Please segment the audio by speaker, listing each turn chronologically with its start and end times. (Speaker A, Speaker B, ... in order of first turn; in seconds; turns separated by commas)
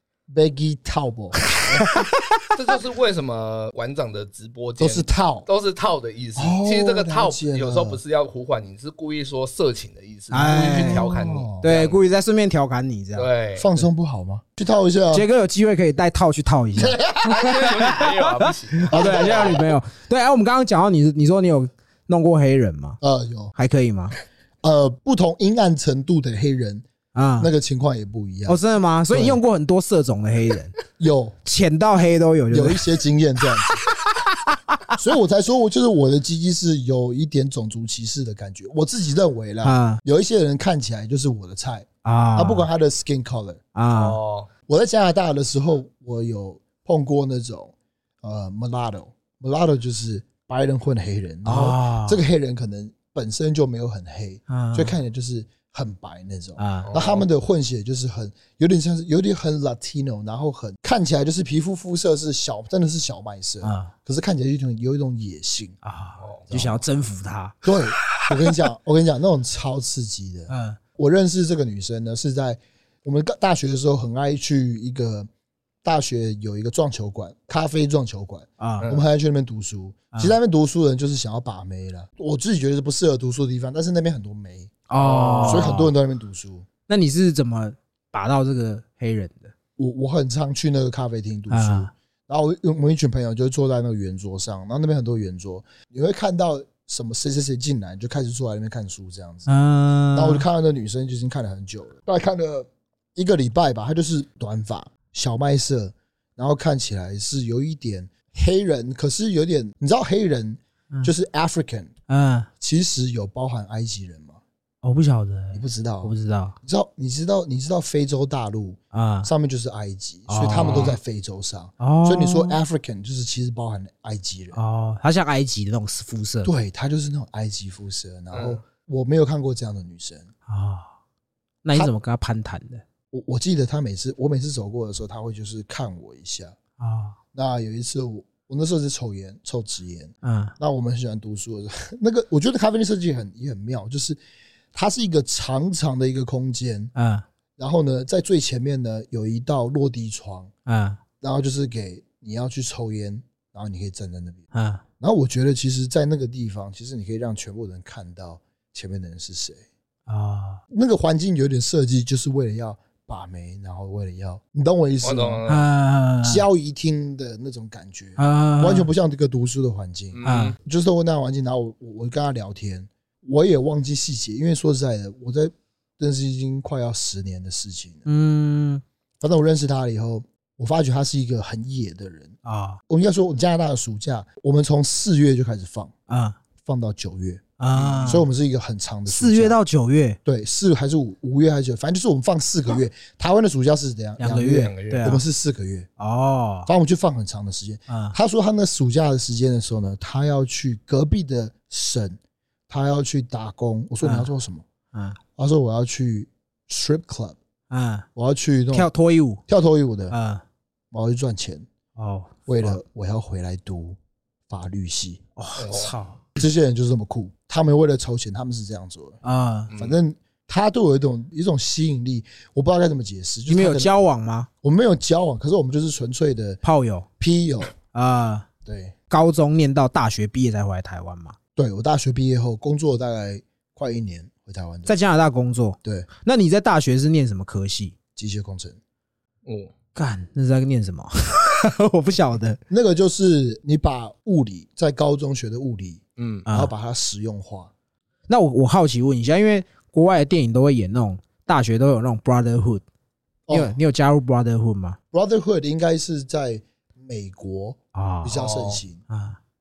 Speaker A: 0.3-1.9, Speaker B: 1.4-2.5, Speaker C: 2.5-12.0, Speaker A: 4.8-5.5, Speaker A: 6.3-8.0, Speaker B: 10.3-11.1, Speaker A: 10.5-11.7, Speaker B: 11.6-13.3, Speaker C: 13.1-13.7, Speaker A: 13.6-15.3, Speaker B: 15.1-18.1, Speaker A: 16.8-17.5, Speaker C: 17.2-19.6, Speaker B: 18.8-23.0, Speaker A: 18.9-19.7, Speaker A: 23.0-23.5, Speaker B: 23.6-24.1, Speaker A: 24.6-26.8, Speaker B: 27.1-27.5, Speaker A: 27.4-29.4, Speaker B: 28.5-30.8, Speaker A: 31.0-31.4, Speaker B: 31.4-33.0, Speaker A: 32.5-33.8, Speaker B: 33.6-34.9, Speaker A: 34.9-43.6, Speaker B: 39.6-40.0, Speaker B: 42.0-42.7, Speaker B: 43.7-44.2, Speaker C: 43.9-44.5, Speaker A: 44.7-65.7, Speaker B: 51.4-52.2, Speaker B: 54.5-54.9, Speaker B: 56.6-56.9, Speaker C: 56.8-57.2, Speaker B: 63.6-63.9, Speaker B: 65.8-68.6, Speaker C: 66.2-66.5, Speaker A: 66.5-66.8, Speaker A: 67.6-75.3, Speaker B: 70.5-70.8, Speaker A: 75.8-84.9, Speaker B: 78.6-78.9, Speaker B: 84.9-85.9, Speaker C: 85.0-85.7, Speaker A: 85.4-86.7, Speaker B: 86.9-89.5, Speaker A: 89.8-99.5, Speaker B: 91.5-91.9, Speaker B: 99.5-100.4, Speaker A: 100.1-111.9, Speaker B: 112.1-112.5, Speaker A: 112.6-114.4, Speaker B: 114.8-116.5, Speaker A: 115.5-124.6, Speaker B: 118.9-119.3, Speaker B: 120.3-120.9, Speaker C: 120.6-121.0, Speaker B: 121.8-122.6, Speaker B: 124.5-126.5, Speaker A: 126.4-130.3, Speaker C: 128.3-128.6, Speaker B: 130.5-130.9, Speaker B: 131.6-132.8, Speaker A: 133.1-136.6, Speaker B: 136.8-137.2, Speaker A: 137.3-144.2, Speaker B: 140.2-140.5, Speaker A: 144.7-146.9, Speaker B: 146.9-147.2, Speaker A: 147.6-150.5, Speaker B: 150.7-151.0, Speaker A: 151.2-154.4, Speaker B: 154.5-154.8, Speaker A: 155.0-159.6, Speaker B: 160.1-160.6, Speaker A: 160.7-165.4, Speaker C: 165.0-165.7, Speaker B: 165.5-166.4, Speaker A: 166.2-178.1, Speaker B: 168.2-168.9, Speaker C: 170.1-170.6, Speaker B: 170.2-170.6, Speaker B: 178.1-178.8, Speaker A: 179.2-182.3, Speaker B: 182.4-182.8, Speaker A: 182.9-185.9, Speaker B: 186.1-186.4, Speaker A: 186.6-189.6, Speaker B: 187.6-188.3, Speaker B: 189.1-190.2, Speaker A: 190.2-195.9, Speaker B: 194.2-195.2, Speaker C: 194.4-195.1, Speaker B: 196.0-196.7, Speaker A: 196.7-202.2, Speaker B: 197.9-198.2, Speaker A: 202.7-204.6, Speaker B: 204.0-204.3, Speaker B: 204.9-205.2, Speaker A: 205.3-207.4, Speaker B: 207.7-208.1, Speaker A: 208.1-208.9, Speaker B: 208.7-209.4, Speaker A: 209.5-210.2, Speaker B: 210.1-210.4, Speaker A: 210.9-211.7, Speaker B: 211.9-212.8, Speaker A: 212.5-214.0, Speaker A: 214.5-215.2, Speaker B: 215.4-216.2, Speaker C: 215.6-215.9, Speaker A: 216.3-219.2, Speaker B: 219.2-219.7, Speaker C: 219.7-220.0, Speaker A: 219.7-223.9, Speaker B: 223.5-224.5, Speaker A: 224.6-226.6, Speaker B: 226.6-227.1, Speaker A: 227.2-227.7, Speaker B: 227.9-228.5, Speaker A: 228.6-228.9, Speaker B: 229.1-231.4, Speaker A: 231.6-234.9, Speaker B: 234.9-237.9, Speaker A: 238.2-238.8, Speaker C: 239.4-239.7, Speaker B: 239.9-242.6, Speaker A: 242.7-247.7, Speaker C: 246.2-246.5, Speaker B: 246.5-246.7, Speaker B: 248.3-252.8, Speaker A: 253.5-253.8, Speaker B: 253.5-255.0, Speaker A: 255.1-259.0, Speaker B: 257.9-258.4, Speaker C: 258.3-258.8, Speaker B: 259.1-259.4